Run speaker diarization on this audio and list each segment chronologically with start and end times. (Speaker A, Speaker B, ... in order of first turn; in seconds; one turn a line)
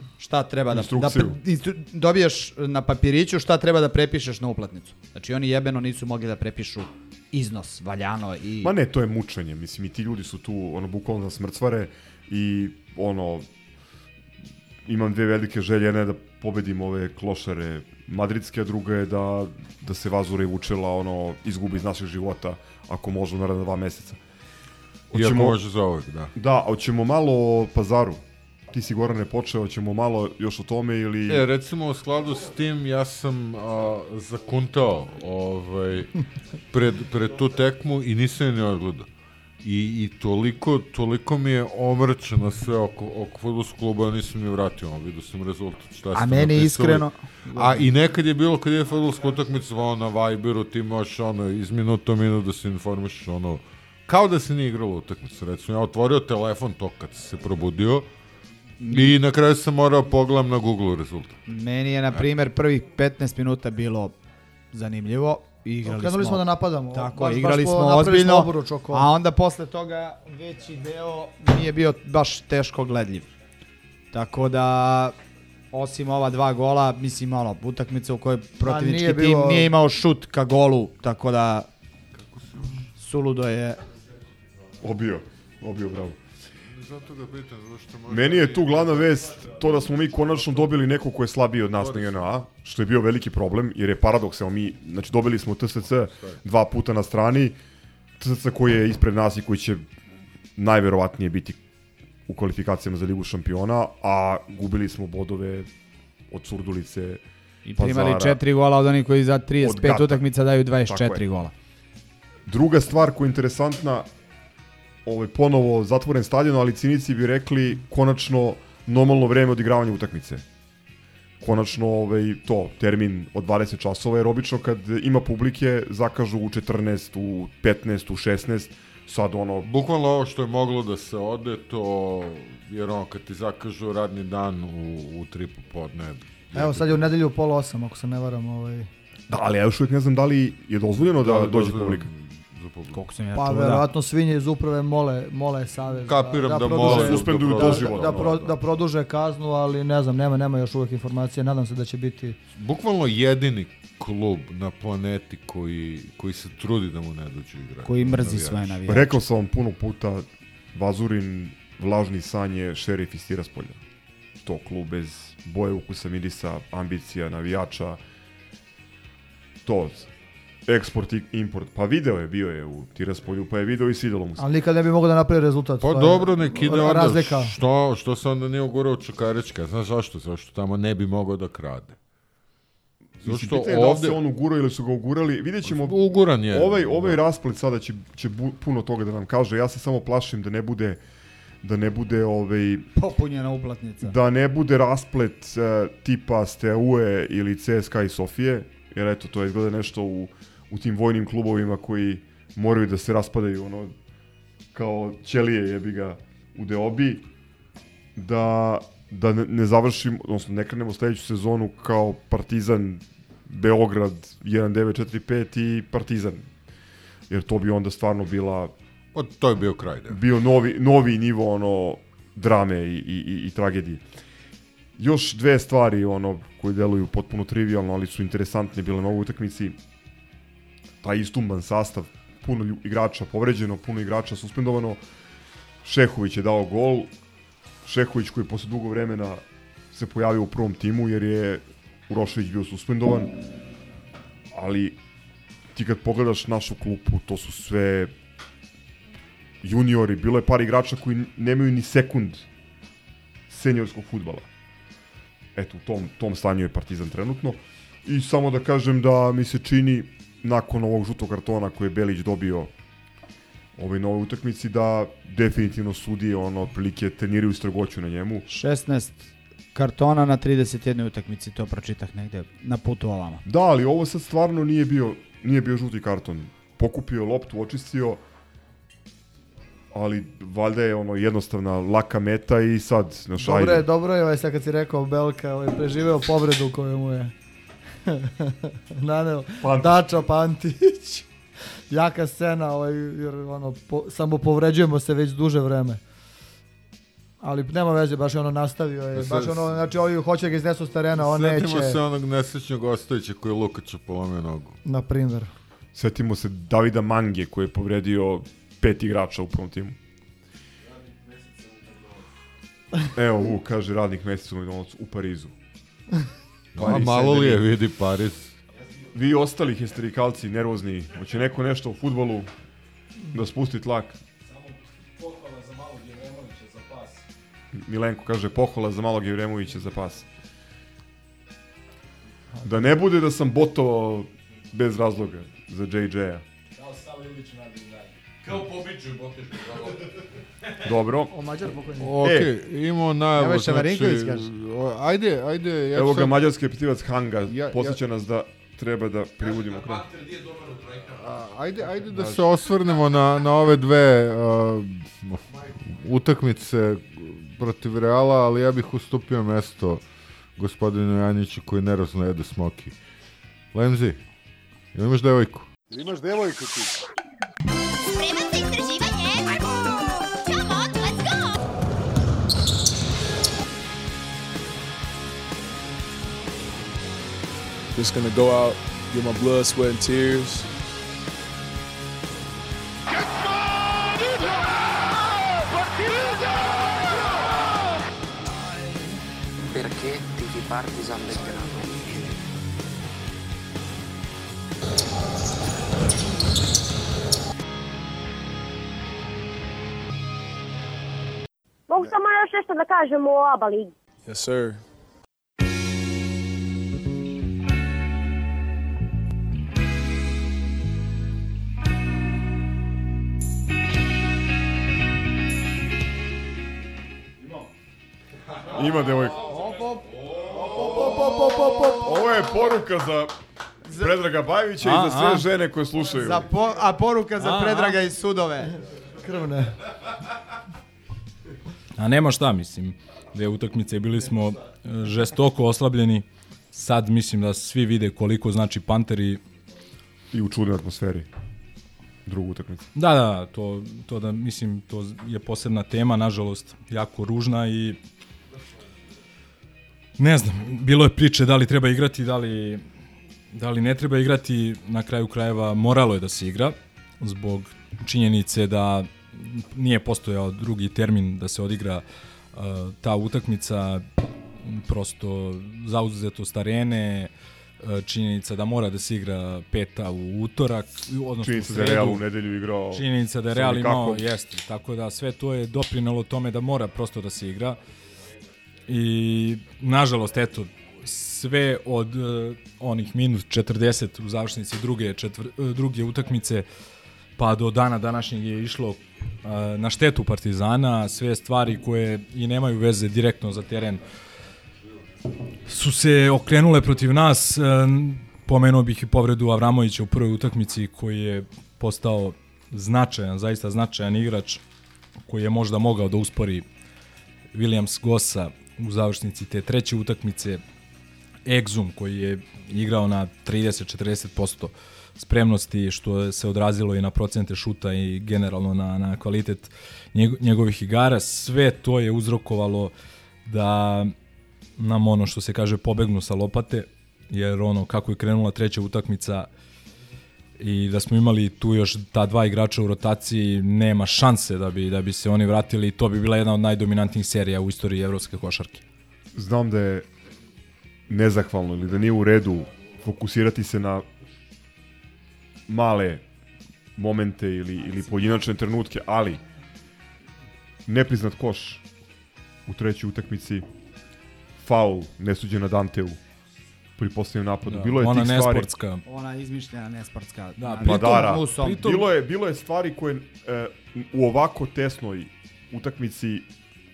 Speaker A: 0.2-8.7
Speaker B: 0.7-1.4
Speaker B: 8.6-13.4
Speaker B: 14.8-24.2
Speaker B: 25.1-25.6
Speaker C: 25.1-26.3
Speaker B: 26.3-31.4
Speaker C: 31.3-36.1
Speaker C: 36.7-39.1
Speaker C: 39.6-58.1
Speaker A: 46.1-47.9
Speaker A: 58.8-59.2
Speaker C: 58.9-61.4
Speaker A: 61.5-64.2
Speaker A: 64.7-73.3
Speaker D: 65.8-69.1
Speaker A: 74.1-75.2
Speaker A: 75.7-81.7
Speaker D: 78.6-79.7
Speaker C: 82.1-82.9
Speaker A: 83.0-83.8
Speaker B: 84.8-86.2
Speaker C: 86.6-89.5
Speaker B: 88.1-97.5
Speaker C: 91.8-92.3
Speaker C: 96.0-96.4
Speaker B: 98.2-99.8
Speaker B: 100.6-101.6
Speaker B: 102.3-105.7
Speaker B: 106.3-107.2
Speaker A: 107.7-111.5
Speaker B: 107.8-108.4
Speaker B: 109.6-110.2
Speaker B: 110.8-111.2
Speaker B: 112.5-114.1
Speaker B: 115.0-120.4
Speaker B: 121.4-129.7
Speaker C: 129.6-137.0
Speaker D: 136.5-138.9
Speaker B: 139.3-142.1
Speaker C: 141.2-143.0
Speaker A: 142.9-143.9
Speaker D: 143.3-152.4
Speaker C: 146.0-148.5
Speaker B: 146.6-148.4
Speaker C: 152.5-158.8
Speaker A: 157.8-159.1
Speaker B: 158.9-163.8
Speaker B: 164.4-168.0
Speaker B: 169.6-170.1
Speaker B: 170.7-174.4
Speaker D: 174.4-177.5
Speaker C: 175.8-182.0
Speaker C: 183.2-184.2
Speaker B: 183.2-191.0
Speaker C: 185.6-187.2
Speaker B: 191.6-192.9
Speaker A: 193.0-194.1
Speaker B: 194.0-203.9
Speaker B: 204.7-207.2
Speaker B: 208.2-216.5
Speaker B: 217.3-218.7
Speaker C: 219.1-220.2
Speaker B: 220.1-224.0
Speaker B: 225.0-229.8
Speaker B: 231.0-235.0
Speaker B: 235.8-237.1
Speaker B: 237.8-243.3
Speaker B: 244.5-244.9
Speaker B: 245.7-248.1
Speaker B: 249.6-252.4
Speaker B: 253.5-254.4
Speaker B: 255.5-262.7
Speaker B: 263.8-268.4
Speaker A: 268.5-273.4
Speaker B: 273.4-278.2
Speaker B: 279.9-283.9
Speaker D: 283.4-287.3
Speaker D: 288.1-291.3
Speaker B: 289.6-290.0
Speaker D: 291.9-296.0
Speaker D: 297.4-302.0
Speaker C: 299.1-299.7
Speaker C: 301.1-304.8
Speaker D: 304.8-305.5
Speaker B: 305.9-310.0
Speaker B: 313.1-315.5
Speaker C: 316.7-318.6
Speaker B: 316.8-317.6
Speaker B: 319.1-322.5
Speaker B: 323.3-324.2
Speaker E: 324.4-327.2
Speaker B: 327.7-330.2
Speaker B: 332.6-336.4
Speaker E: 336.8-338.1
Speaker B: 340.8-341.3
Speaker D: 341.3-342.2
Speaker C: 342.0-346.4
Speaker B: 342.2-342.5
Speaker A: 343.3-344.5
Speaker B: 345.9-350.1
Speaker C: 347.5-348.0
Speaker C: 351.0-360.0
Speaker C: 360.6-362.9
Speaker C: 363.7-364.2
Speaker C: 364.9-365.7
Speaker F: 368.1-371.5
Speaker G: 377.9-380.7
Speaker H: 389.7-392.2
Speaker I: 401.9-403.9
Speaker G: 404.2-404.8
Speaker B: 418.7-419.5
Speaker D: 419.3-422.0
Speaker B: 420.6-423.3
Speaker B: 423.9-426.5
Speaker E: 424.8-425.5
Speaker A: 426.1-428.7
Speaker E: 427.4-428.0
Speaker D: 429.2-429.7
Speaker E: 432.0-439.4
Speaker B: 440.3-441.3
Speaker B: 442.2-442.9
Speaker E: 442.9-448.0
Speaker E: 450.2-452.8
Speaker E: 453.5-464.1
Speaker E: 464.6-467.3
Speaker E: 467.8-472.2
Speaker B: 471.4-474.2
Speaker E: 472.9-477.8
Speaker E: 478.9-486.6
Speaker E: 487.4-494.0
Speaker E: 495.7-504.6
Speaker E: 505.3-506.6
Speaker E: 507.5-510.6
Speaker E: 511.4-522.9
Speaker E: 523.5-524.1
Speaker E: 524.8-529.5
Speaker E: 530.6-538.8
Speaker B: 539.3-540.0
Speaker B: 541.1-544.0
Speaker B: 545.7-546.2
Speaker B: 547.0-549.4
Speaker B: 550.9-551.8
Speaker B: 552.7-553.6
Speaker B: 554.6-556.2
Speaker B: 557.0-558.7
Speaker E: 557.7-559.0
Speaker A: 559.0-561.9
Speaker E: 560.6-562.1
Speaker B: 560.8-566.5